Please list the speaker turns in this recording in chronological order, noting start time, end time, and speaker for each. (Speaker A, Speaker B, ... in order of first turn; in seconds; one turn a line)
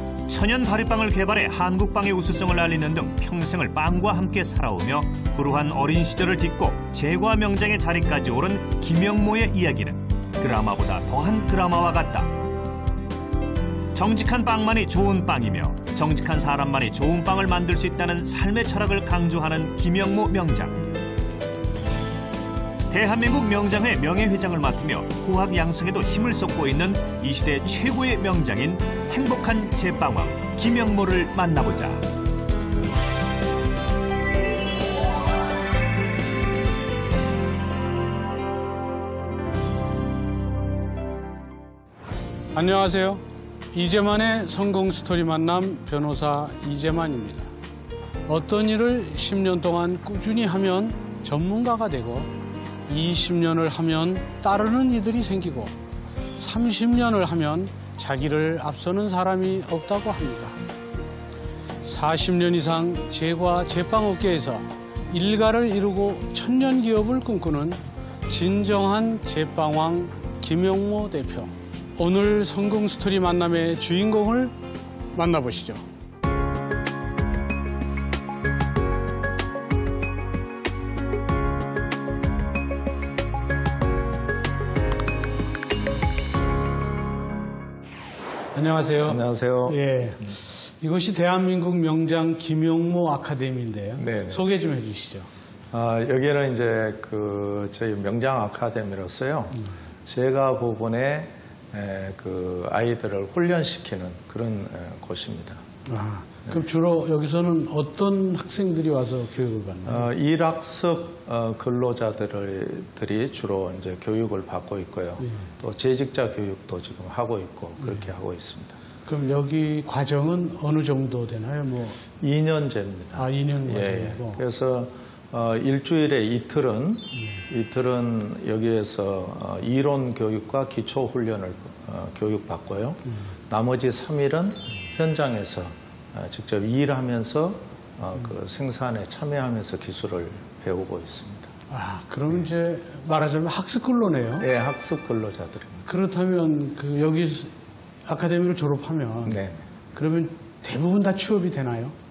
Speaker A: 0.3-12.3
Speaker A: 13.9-20.9
Speaker A: 22.9-32.1
Speaker B: 42.5-47.5
Speaker B: 48.3-52.3
Speaker B: 52.9-55.8
Speaker B: 56.4-60.6
Speaker B: 61.8-74.5
Speaker B: 75.1-75.9
Speaker B: 88.5-95.3
Speaker C: 89.0-89.8
Speaker C: 94.0-94.4
Speaker C: 95.7-105.6
Speaker B: 105.9-110.1
Speaker C: 109.9-118.8
Speaker B: 119.0-122.0
Speaker C: 122.2-141.5
Speaker B: 123.2-124.4
Speaker B: 141.7-144.5
Speaker C: 144.4-145.8
Speaker B: 145.8-149.4
Speaker C: 149.3-149.6
Speaker B: 149.9-151.9